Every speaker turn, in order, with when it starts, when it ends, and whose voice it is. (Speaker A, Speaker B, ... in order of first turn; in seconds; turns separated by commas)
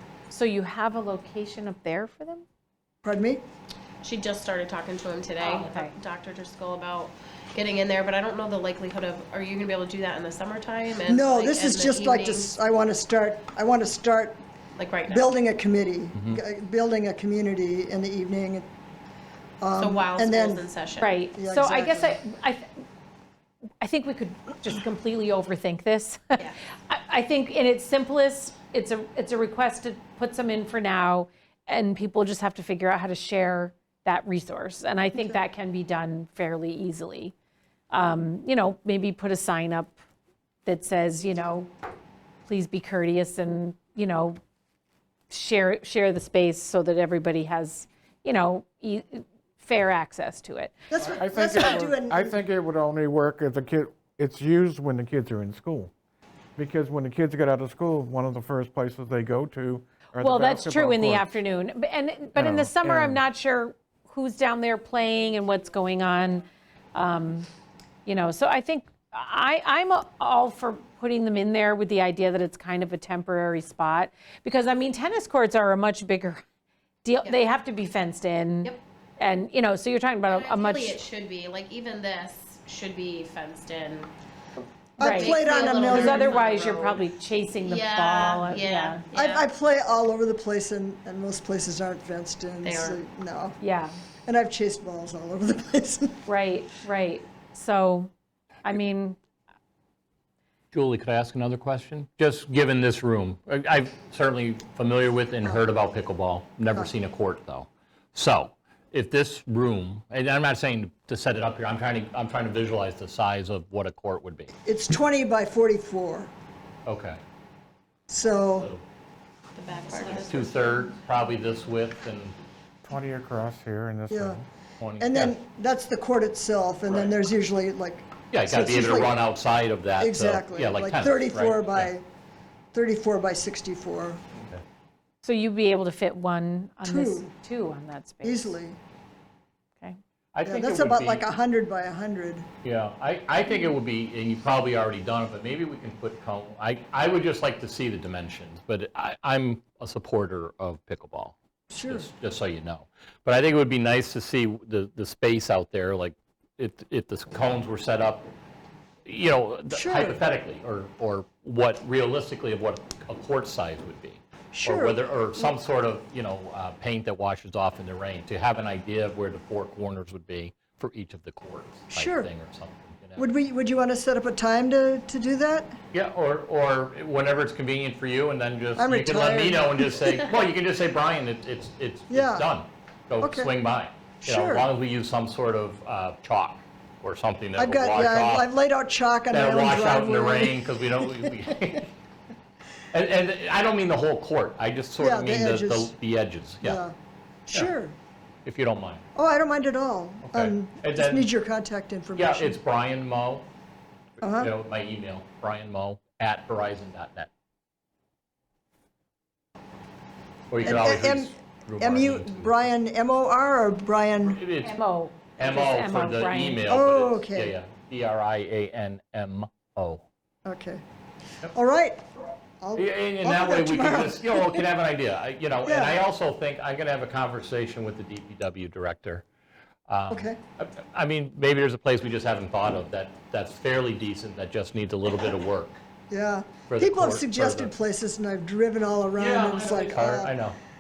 Speaker A: 0.3-2.5, Speaker B: 3.0-3.4, Speaker C: 4.0-12.5, Speaker A: 5.4-5.9, Speaker B: 11.1-14.4, Speaker C: 14.8-15.3, Speaker B: 15.1-18.7, Speaker B: 19.6-20.7, Speaker C: 19.7-21.1, Speaker A: 21.0-22.7, Speaker B: 21.3-22.2, Speaker A: 23.8-37.3, Speaker A: 37.9-40.0, Speaker A: 40.6-41.7, Speaker A: 42.5-44.4, Speaker A: 45.3-50.9, Speaker B: 50.9-52.4, Speaker D: 51.0-55.9, Speaker D: 56.6-61.3, Speaker A: 60.2-67.5, Speaker D: 62.4-63.2, Speaker A: 68.1-76.4, Speaker A: 77.0-81.0, Speaker C: 80.3-84.1, Speaker B: 85.0-86.5, Speaker C: 85.0-87.0, Speaker A: 85.0-89.0, Speaker C: 87.6-89.4, Speaker B: 89.1-93.6, Speaker C: 92.6-93.0, Speaker A: 93.6-93.9, Speaker B: 94.3-96.2, Speaker A: 96.3-98.1, Speaker A: 98.6-99.2, Speaker E: 100.7-114.5, Speaker B: 114.7-116.3, Speaker E: 116.9-117.2, Speaker B: 118.1-118.7, Speaker E: 118.6-118.8, Speaker C: 119.5-120.8, Speaker E: 120.2-122.4, Speaker D: 122.8-124.5, Speaker B: 124.1-124.4, Speaker E: 124.8-125.3, Speaker B: 125.0-129.2, Speaker E: 128.3-131.9, Speaker B: 130.0-132.1, Speaker B: 132.7-134.2, Speaker E: 134.3-134.6, Speaker A: 135.2-138.6, Speaker B: 136.8-137.3, Speaker B: 138.2-138.8, Speaker E: 140.3-141.3, Speaker B: 140.4-142.5, Speaker E: 142.6-151.3, Speaker B: 151.7-152.1, Speaker E: 151.9-158.3, Speaker E: 159.1-173.3, Speaker B: 159.7-160.2, Speaker B: 164.5-165.5, Speaker B: 171.9-172.3, Speaker B: 173.2-175.8, Speaker E: 175.9-188.5, Speaker B: 178.8-180.1, Speaker B: 182.1-182.5, Speaker B: 183.2-183.5, Speaker B: 184.2-184.7, Speaker B: 187.6-191.1, Speaker E: 189.3-191.9, Speaker E: 192.9-196.8, Speaker B: 195.0-195.9, Speaker B: 196.6-196.9, Speaker B: 197.5-198.0, Speaker E: 198.4-199.1, Speaker B: 199.2-202.6, Speaker E: 200.2-201.3, Speaker E: 202.2-203.5, Speaker B: 204.2-204.5, Speaker E: 204.2-207.3, Speaker E: 210.5-212.7, Speaker B: 210.6-214.4, Speaker E: 214.2-214.8, Speaker A: 214.6-216.7, Speaker E: 215.4-220.0, Speaker B: 216.7-217.6, Speaker B: 220.5-220.8, Speaker B: 221.5-222.0, Speaker B: 222.6-224.7, Speaker E: 222.8-229.2, Speaker B: 225.7-226.0, Speaker E: 229.9-235.8, Speaker B: 230.1-230.4, Speaker B: 236.1-240.3, Speaker E: 236.7-237.7, Speaker E: 239.2-240.6